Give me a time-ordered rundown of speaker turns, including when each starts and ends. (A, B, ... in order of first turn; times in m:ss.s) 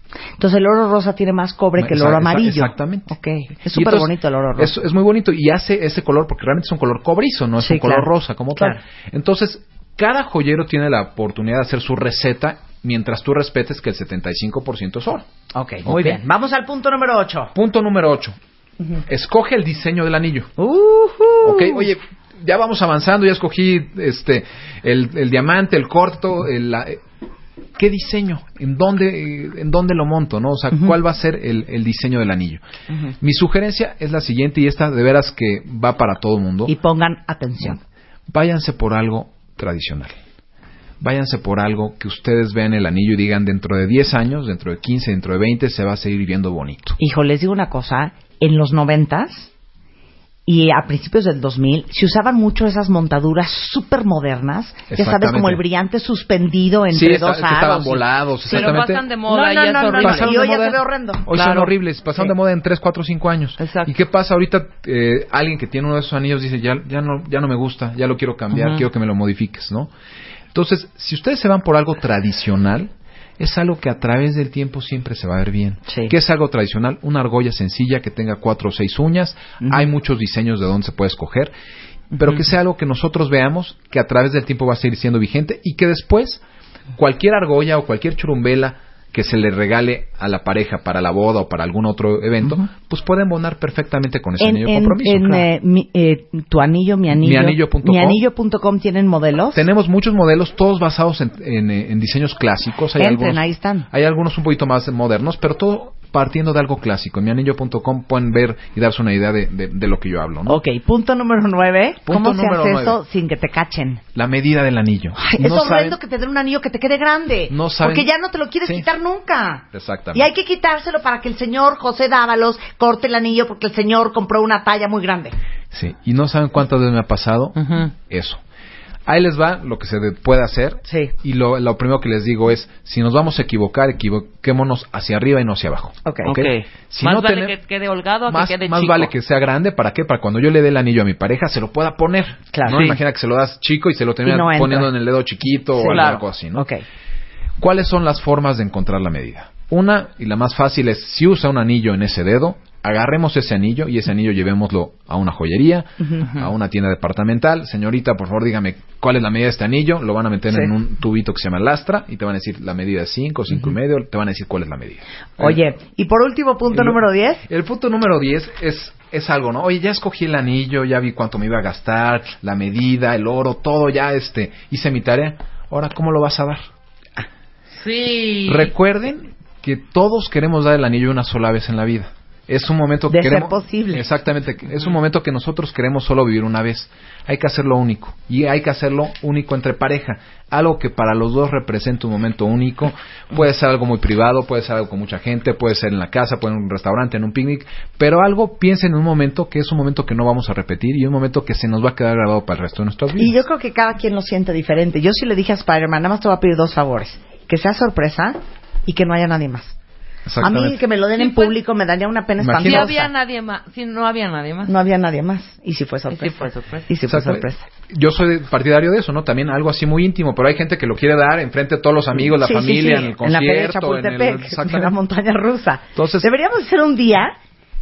0:00.4-0:04.7 A
0:01.8-0:03.1 B
0:03.6-0:15.2 B
0:07.6-0:08.8 A
0:15.5-0:17.5 A
0:15.8-0:16.2 B
0:17.5-0:18.4 B
0:19.1-0:20.5 B
0:20.6-0:21.9 A
0:21.4-0:27.0 B
0:27.8-0:32.6 B
0:33.2-0:36.8 B
0:36.6-0:37.8 A
0:38.3-0:40.2 B
0:41.0-0:47.0 B
0:47.0-0:49.5 A
0:50.4-1:01.3 A
0:54.9-0:55.6 B
0:56.9-0:59.0 B
0:58.5-1:00.7 C
1:00.0-1:00.7 B
1:01.2-1:09.9 B
1:01.3-1:01.7 C
1:03.6-1:03.9 C
1:08.5-1:08.8 C
1:10.5-1:21.5 B
1:15.9-1:16.1 A
1:19.6-1:19.9 A
1:22.1-1:26.4 B
1:27.0-1:35.5 B
1:34.4-1:39.6 A
1:37.1-1:38.2 B
1:39.5-1:50.6 B
1:43.0-1:43.9 A
1:50.4-1:54.0 A
1:52.0-1:53.0 B
1:54.1-1:56.0 B
1:55.2-2:05.3 A
1:57.5-1:58.1 B
1:59.7-2:00.3 B
2:05.7-2:08.4 B
2:07.6-2:07.9 C
2:09.0-2:16.0 B
2:10.9-2:11.1 A
2:16.0-2:16.5 A
2:16.2-2:19.1 C
2:16.9-2:17.5 B
2:18.3-2:26.7 B
2:22.7-2:23.0 C
2:24.2-2:24.9 A
2:25.8-2:26.8 A
2:25.9-2:26.2 C
2:27.6-2:45.6 B
2:36.0-2:36.3 A
2:45.4-2:47.4 A
2:46.7-2:56.6 B
2:57.8-2:58.7 C
2:58.4-3:23.4 B
3:03.1-3:04.0 A
3:23.2-3:29.8 A
3:30.2-3:30.8 B
3:30.4-3:33.1 A
3:31.2-3:31.5 C
3:32.4-3:33.0 B
3:32.6-3:34.7 C
3:34.6-3:37.6 A
3:36.1-3:36.9 C
3:37.1-3:44.9 B
3:42.2-3:47.3 A
3:46.0-3:46.3 B